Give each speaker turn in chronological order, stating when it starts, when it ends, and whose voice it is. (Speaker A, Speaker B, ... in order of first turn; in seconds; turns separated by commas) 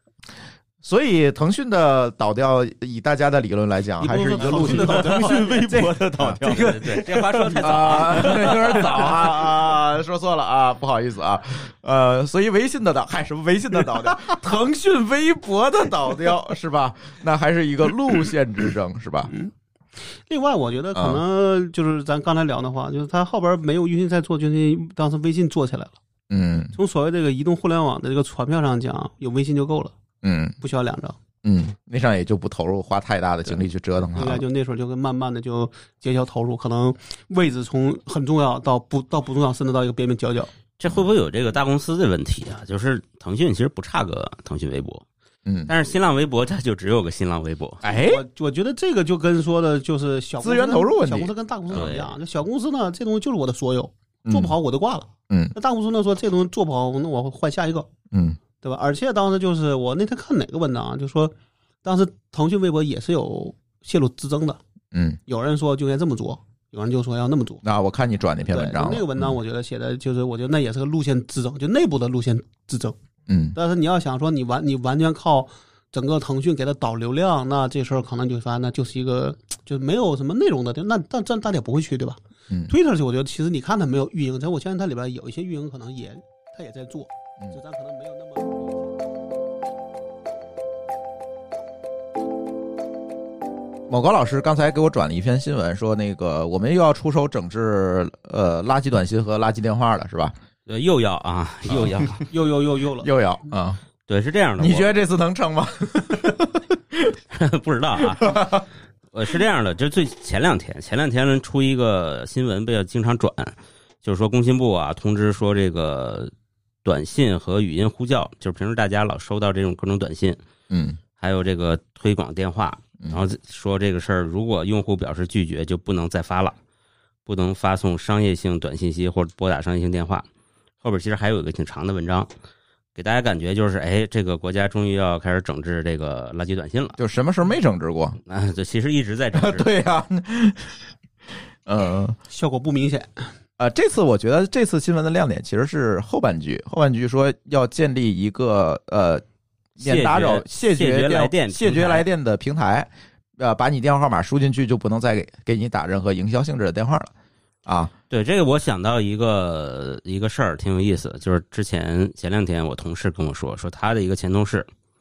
Speaker A: 0.8-5.3, Speaker B: 4.0-6.0, Speaker C: 4.3-8.8, Speaker D: 6.4-8.9, Speaker A: 7.6-19.3, Speaker B: 20.0-26.0, Speaker A: 20.9-21.2, Speaker A: 26.3-26.8, Speaker B: 26.7-29.9, Speaker A: 30.2-30.6, Speaker B: 30.6-31.2, Speaker A: 31.4-34.4, Speaker B: 34.1-40.5, Speaker D: 40.8-45.0, Speaker A: 45.5-45.7, Speaker D: 45.7-47.8, Speaker A: 47.8-48.2, Speaker B: 47.9-57.9, Speaker A: 50.4-51.9, Speaker D: 51.7-52.2, Speaker A: 54.3-54.6, Speaker A: 55.3-55.5, Speaker A: 58.1-58.4, Speaker B: 58.6-61.3, Speaker B: 61.8-64.6, Speaker A: 64.9-65.2, Speaker B: 65.3-67.6, Speaker A: 67.6-69.4, Speaker B: 68.5-73.0, Speaker A: 73.3-73.6, Speaker B: 73.5-88.9, Speaker A: 93.9-100.3, Speaker D: 100.7-102.2, Speaker B: 102.3-103.1, Speaker A: 103.0-103.8, Speaker D: 104.1-104.9, Speaker A: 104.6-107.2, Speaker D: 107.3-108.5, Speaker A: 108.0-108.7, Speaker D: 109.1-116.3, Speaker D: 116.8-120.4, Speaker A: 120.7-121.0, Speaker D: 121.2-126.5, Speaker D: 127.3-130.2, Speaker D: 130.8-132.3, Speaker D: 133.0-137.0, Speaker A: 137.0-138.2, Speaker D: 138.3-139.7, Speaker A: 139.3-140.9, Speaker A: 141.7-142.2, Speaker B: 142.3-143.3, Speaker A: 143.6-149.2, Speaker A: 149.8-157.1, Speaker D: 149.8-152.1, Speaker A: 157.7-157.9, Speaker D: 158.1-164.7